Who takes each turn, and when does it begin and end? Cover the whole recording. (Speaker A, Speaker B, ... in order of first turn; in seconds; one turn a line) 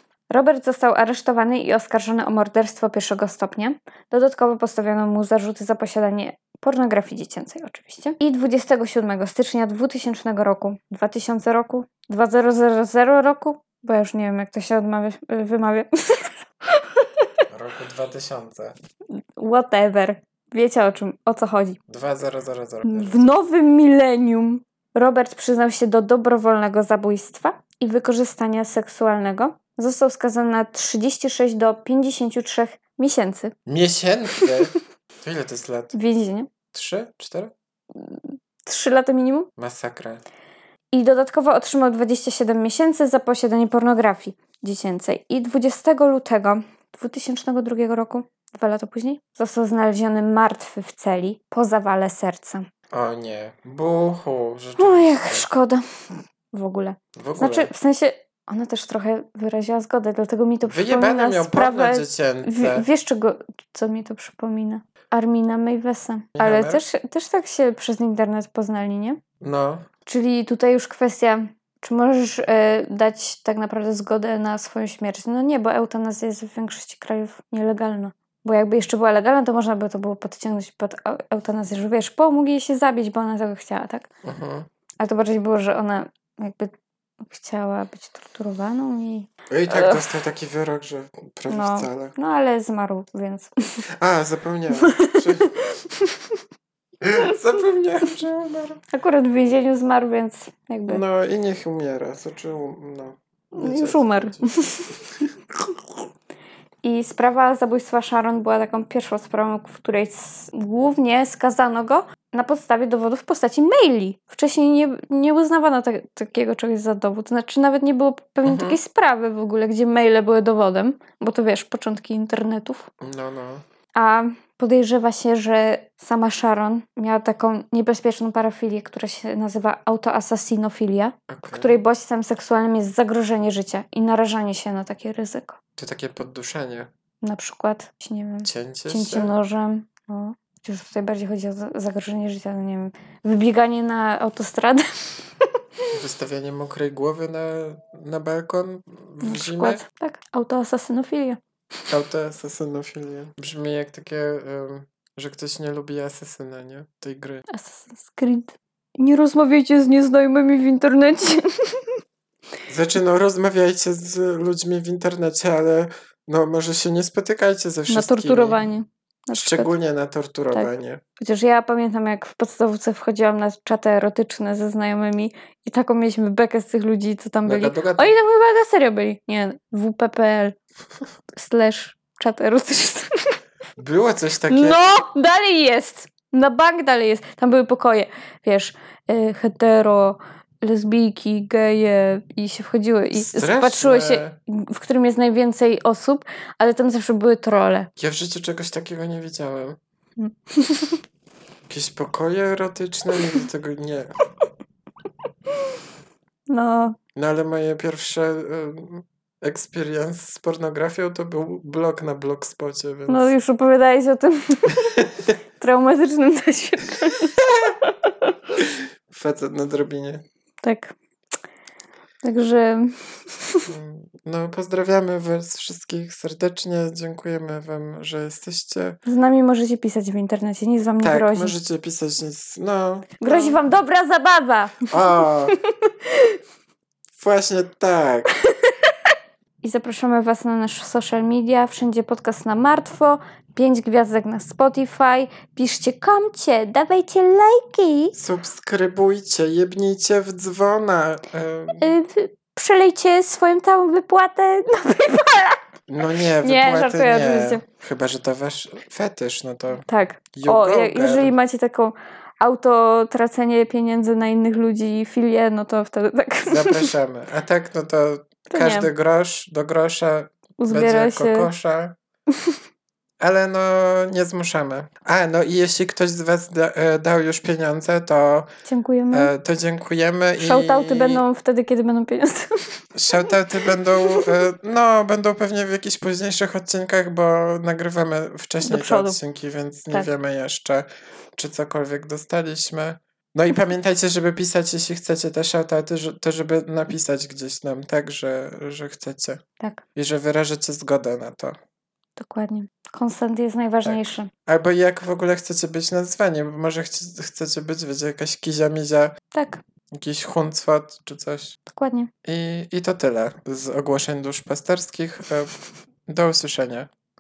Speaker A: 0.3-17.3
Speaker B: 17.5-18.8
Speaker A: 19.4-21.8
Speaker B: 21.9-23.4
Speaker A: 22.9-33.5
Speaker B: 33.7-35.9
Speaker A: 35.9-36.5
Speaker B: 36.7-37.5
Speaker A: 38.0-39.5
Speaker B: 39.6-40.2
Speaker A: 40.9-52.6
Speaker B: 52.9-55.5
Speaker A: 54.8-55.8
Speaker A: 56.5-69.2
Speaker B: 57.2-57.7
Speaker B: 60.6-62.9
Speaker B: 66.4-66.8
Speaker B: 69.4-69.9
Speaker A: 70.1-84.1
Speaker B: 84.2-84.7
Speaker A: 85.0-90.1
Speaker B: 89.5-92.2
Speaker A: 91.5-93.5
Speaker B: 94.0-95.5
Speaker A: 94.8-96.3
Speaker B: 97.0-98.8
Speaker A: 98.9-101.0
Speaker B: 100.9-104.5
Speaker A: 103.5-105.3
Speaker A: 106.8-122.9
Speaker B: 118.5-118.8
Speaker B: 123.0-123.6
Speaker A: 124.0-135.6
Speaker B: 131.3-131.8
Speaker B: 135.8-136.9
Speaker A: 137.2-144.9
Speaker B: 138.4-139.3
Speaker B: 145.9-149.8
Speaker A: 149.2-151.4
Speaker B: 151.9-157.4
Speaker A: 157.5-161.9
Speaker B: 162.7-168.7
Speaker A: 167.9-169.7
Speaker B: 169.3-171.0
Speaker A: 170.5-180.6
Speaker B: 177.4-178.2
Speaker A: 181.3-183.1
Speaker B: 183.8-184.8
Speaker A: 184.5-197.9
Speaker B: 193.1-194.4
Speaker B: 198.0-199.8
Speaker A: 200.2-201.0
Speaker B: 201.7-204.1
Speaker A: 206.5-207.0
Speaker B: 207.2-213.3
Speaker A: 213.1-215.0
Speaker A: 215.6-218.3
Speaker B: 218.6-220.2
Speaker A: 220.6-220.9
Speaker A: 222.2-223.7
Speaker B: 223.7-229.0
Speaker A: 229.1-231.6
Speaker B: 231.0-233.6
Speaker A: 233.2-234.9
Speaker B: 234.9-235.6
Speaker A: 235.6-236.4
Speaker B: 237.2-238.3
Speaker A: 238.6-238.9
Speaker A: 239.6-248.2
Speaker B: 248.2-251.9
Speaker A: 251.8-255.6
Speaker B: 255.9-261.3
Speaker A: 256.4-257.6
Speaker A: 259.8-266.9
Speaker B: 266.5-272.0
Speaker A: 268.5-268.9
Speaker A: 270.6-271.5
Speaker B: 273.2-278.5
Speaker A: 278.6-279.3
Speaker B: 279.1-281.2
Speaker A: 280.4-282.5
Speaker B: 282.9-299.4
Speaker A: 283.9-284.3
Speaker A: 288.6-289.2
Speaker B: 299.9-301.6
Speaker A: 302.2-304.3
Speaker B: 303.9-309.1
Speaker A: 309.3-309.6
Speaker B: 309.9-311.6
Speaker A: 311.7-312.1
Speaker B: 312.2-315.6
Speaker B: 316.1-316.9